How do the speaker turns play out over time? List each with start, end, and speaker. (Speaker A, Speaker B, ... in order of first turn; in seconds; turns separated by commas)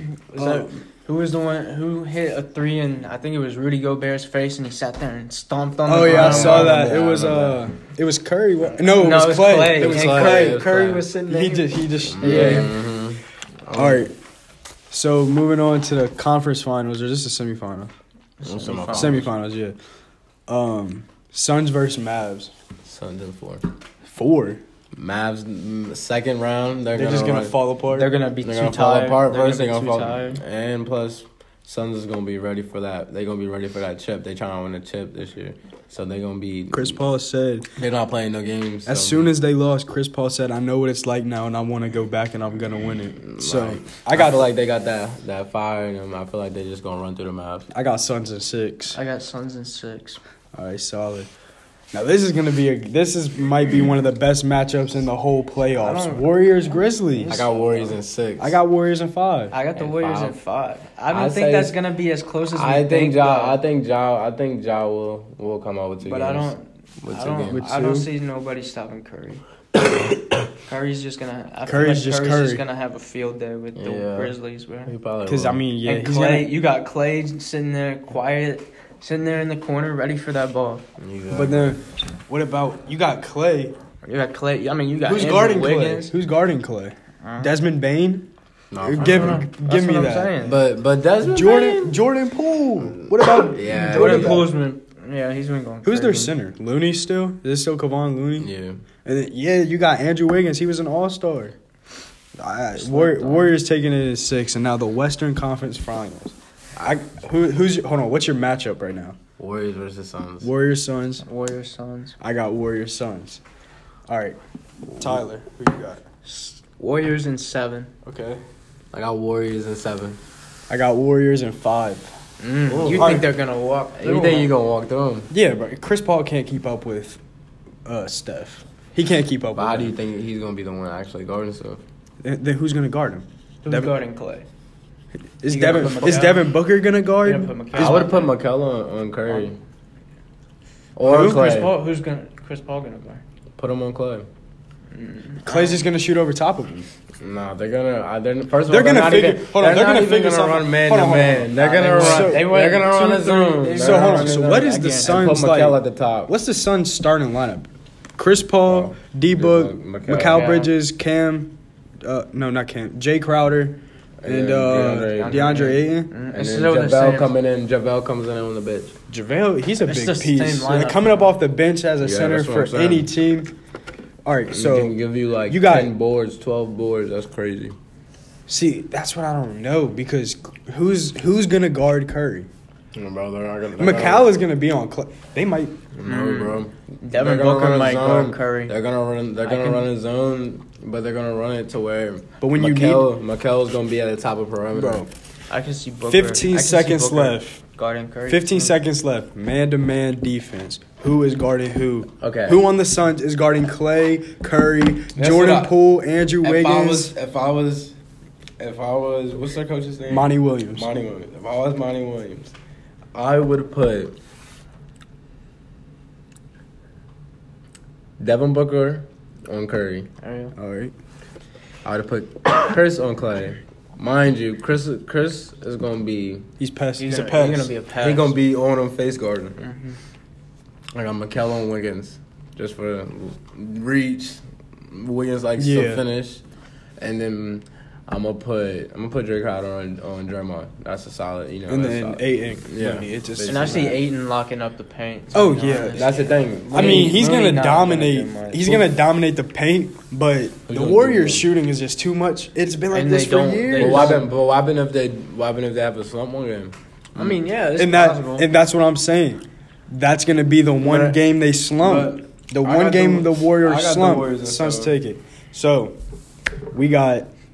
Speaker A: 0.3-7.4, Speaker B: 0.3-0.7, Speaker B: 5.9-12.8, Speaker C: 6.0-7.6, Speaker A: 8.6-12.7, Speaker C: 9.7-11.1, Speaker C: 12.0-14.1, Speaker B: 13.7-14.1, Speaker B: 14.9-17.9, Speaker A: 18.4-19.2, Speaker C: 18.4-19.3, Speaker B: 18.9-19.8, Speaker B: 20.5-22.5, Speaker C: 22.9-23.6, Speaker B: 24.1-24.6, Speaker C: 25.0-27.6, Speaker B: 26.9-28.2, Speaker A: 27.9-30.4, Speaker C: 28.4-37.0, Speaker B: 36.7-37.7, Speaker C: 37.8-39.3, Speaker B: 38.9-44.5, Speaker C: 43.2-47.7, Speaker B: 47.7-49.0, Speaker A: 48.9-50.2, Speaker B: 50.5-51.3, Speaker B: 51.9-57.4, Speaker A: 55.8-58.0, Speaker C: 57.3-58.6, Speaker B: 58.4-59.5, Speaker A: 59.5-63.6, Speaker C: 59.8-60.4, Speaker C: 61.1-61.8, Speaker C: 62.5-66.5, Speaker A: 66.0-69.4, Speaker C: 67.0-67.6, Speaker B: 67.5-68.1, Speaker A: 70.6-74.9, Speaker B: 71.7-72.6, Speaker C: 73.8-75.6, Speaker B: 75.3-76.5, Speaker A: 75.8-80.8, Speaker C: 81.0-81.8, Speaker B: 81.3-83.8, Speaker A: 84.0-86.1, Speaker B: 85.1-88.3, Speaker A: 87.2-87.5, Speaker C: 88.7-89.4, Speaker B: 88.8-90.4, Speaker A: 88.9-90.6, Speaker C: 90.4-92.0, Speaker B: 91.2-94.5, Speaker C: 92.8-94.4, Speaker A: 93.9-96.3, Speaker B: 95.8-98.5, Speaker C: 98.4-98.8, Speaker B: 99.0-101.6, Speaker B: 102.4-109.2, Speaker A: 102.8-103.5, Speaker C: 109.4-110.5, Speaker B: 110.4-111.2, Speaker A: 111.2-112.2, Speaker B: 112.2-113.4, Speaker B: 114.1-114.4, Speaker B: 115.0-116.0, Speaker A: 116.2-117.9, Speaker B: 118.0-118.4, Speaker C: 118.9-120.2, Speaker B: 120.7-122.1, Speaker A: 122.4-124.5, Speaker C: 122.7-123.3, Speaker B: 122.9-123.3, Speaker C: 124.0-125.3, Speaker B: 125.3-127.2, Speaker B: 127.9-129.9, Speaker C: 129.6-131.8, Speaker B: 132.2-133.9, Speaker A: 133.6-134.5, Speaker B: 135.4-138.1, Speaker A: 135.5-136.5, Speaker A: 137.2-138.3, Speaker C: 137.8-139.6, Speaker A: 139.3-139.5, Speaker C: 141.0-141.8, Speaker B: 141.0-141.5, Speaker A: 141.1-143.2, Speaker C: 143.6-144.3, Speaker A: 144.9-145.8, Speaker B: 145.4-146.9, Speaker C: 147.2-156.3, Speaker B: 148.7-152.5, Speaker A: 151.5-155.4, Speaker B: 153.8-166.1, Speaker C: 158.7-160.5, Speaker A: 160.2-160.7, Speaker C: 164.2-165.7, Speaker A: 165.1-167.3, Speaker C: 166.3-168.9, Speaker B: 169.1-173.5, Speaker A: 169.8-171.3, Speaker C: 172.0-173.1, Speaker B: 174.2-174.9, Speaker C: 174.5-177.8, Speaker B: 175.5-175.9, Speaker B: 178.5-182.5, Speaker C: 182.9-184.3, Speaker B: 183.8-185.8, Speaker C: 185.9-195.1, Speaker A: 186.0-188.8, Speaker A: 189.4-189.9, Speaker B: 192.4-193.1, Speaker B: 194.7-195.1, Speaker A: 195.5-198.8, Speaker B: 196.1-197.6, Speaker B: 198.3-207.1, Speaker C: 202.2-202.6, Speaker C: 205.2-205.8, Speaker C: 206.4-207.9, Speaker C: 208.6-212.5, Speaker B: 210.1-210.9, Speaker C: 213.1-214.1, Speaker C: 218.2-220.1, Speaker A: 220.2-220.5, Speaker B: 220.6-220.9, Speaker C: 221.8-226.5, Speaker B: 226.6-227.7, Speaker A: 227.0-228.3, Speaker C: 228.0-229.6, Speaker A: 229.6-230.0, Speaker C: 230.9-236.4, Speaker B: 235.6-236.0, Speaker C: 237.0-244.0, Speaker B: 241.7-243.9, Speaker A: 243.4-248.9, Speaker B: 245.3-246.1, Speaker C: 246.0-247.2, Speaker B: 246.7-254.2, Speaker C: 250.7-251.5, Speaker A: 252.9-254.3, Speaker C: 253.8-257.4, Speaker A: 257.1-258.5, Speaker B: 257.8-265.9, Speaker C: 260.8-261.2, Speaker C: 261.8-264.9, Speaker B: 266.7-267.3